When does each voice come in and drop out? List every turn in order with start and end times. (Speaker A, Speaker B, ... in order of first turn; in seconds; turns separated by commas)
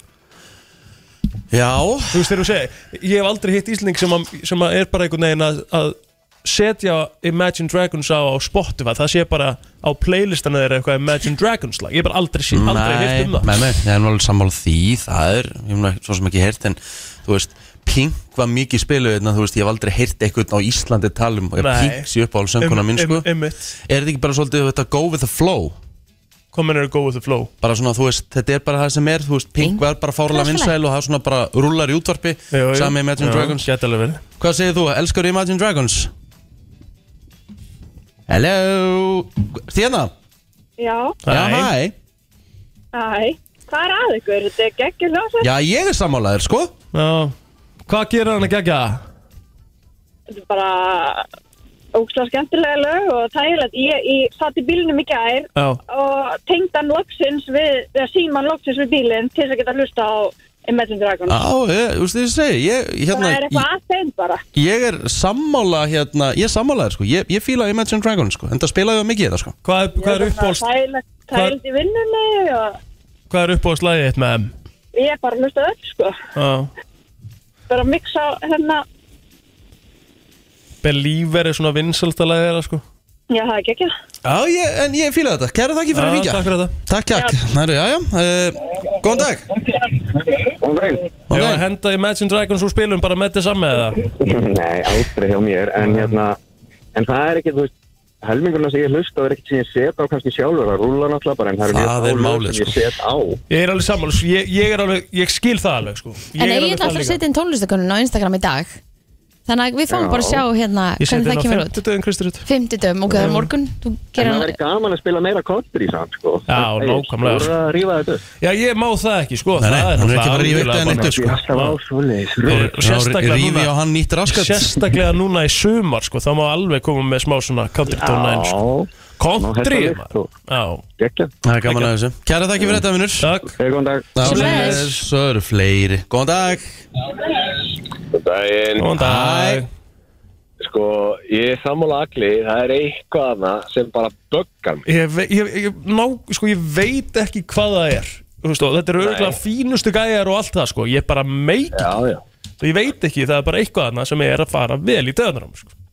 Speaker A: 1.5-2.3, Speaker B: 2.1-13.5, Speaker A: 12.5-23.3, Speaker B: 21.6-22.1, Speaker B: 22.6-23.7, Speaker A: 23.9-25.8, Speaker B: 26.5-27.5, Speaker A: 27.6-33.7, Speaker C: 29.6-30.7, Speaker B: 32.5-34.2, Speaker A: 34.4-36.1, Speaker A: 38.3-40.1, Speaker D: 40.8-41.2, Speaker B: 41.2-41.7, Speaker A: 41.3-41.9, Speaker D: 42.9-45.5, Speaker A: 45.4-46.7, Speaker B: 46.9-47.3, Speaker B: 47.9-49.0, Speaker D: 50.3-51.3, Speaker D: 51.9-61.5, Speaker A: 61.2-63.6, Speaker D: 63.1-64.4, Speaker A: 64.5-69.5, Speaker B: 69.6-70.7, Speaker D: 70.0-72.8, Speaker B: 71.3-71.6, Speaker B: 73.3-74.5, Speaker D: 74.9-76.2, Speaker B: 76.3-76.7, Speaker D: 77.7-78.8, Speaker B: 80.8-82.8, Speaker D: 83.3-83.9, Speaker A: 84.2-89.5, Speaker B: 85.9-86.7, Speaker E: 90.6-91.1, Speaker A: 91.3-91.6, Speaker B: 91.3-94.0, Speaker E: 94.2-96.4, Speaker B: 95.8-96.2, Speaker E: 96.9-103.4, Speaker A: 101.7-102.8, Speaker B: 103.5-107.2, Speaker C: 106.4-108.8, Speaker C: 109.5-111.8, Speaker E: 109.9-110.4, Speaker B: 111.0-112.5, Speaker C: 112.5-114.6, Speaker B: 113.1-113.5, Speaker E: 114.2-118.2, Speaker B: 116.5-117.5, Speaker B: 118.4-121.8, Speaker A: 119.6-121.3, Speaker E: 120.8-122.6, Speaker B: 122.5-123.7, Speaker A: 122.5-124.8, Speaker B: 124.2-128.6, Speaker E: 127.8-130.3, Speaker B: 129.2-130.8, Speaker E: 131.0-131.3, Speaker A: 131.4-133.3, Speaker B: 131.7-131.9, Speaker B: 133.2-133.6, Speaker E: 133.6-134.1, Speaker A: 134.1-136.8, Speaker B: 134.2-135.0, Speaker C: 134.2-134.8, Speaker F: 138.1-138.9, Speaker B: 138.8-139.7, Speaker A: 139.0-139.7, Speaker F: 140.6-144.8, Speaker B: 144.8-151.9, Speaker F: 149.0-149.4, Speaker F: 151.7-152.2, Speaker B: 152.6-155.7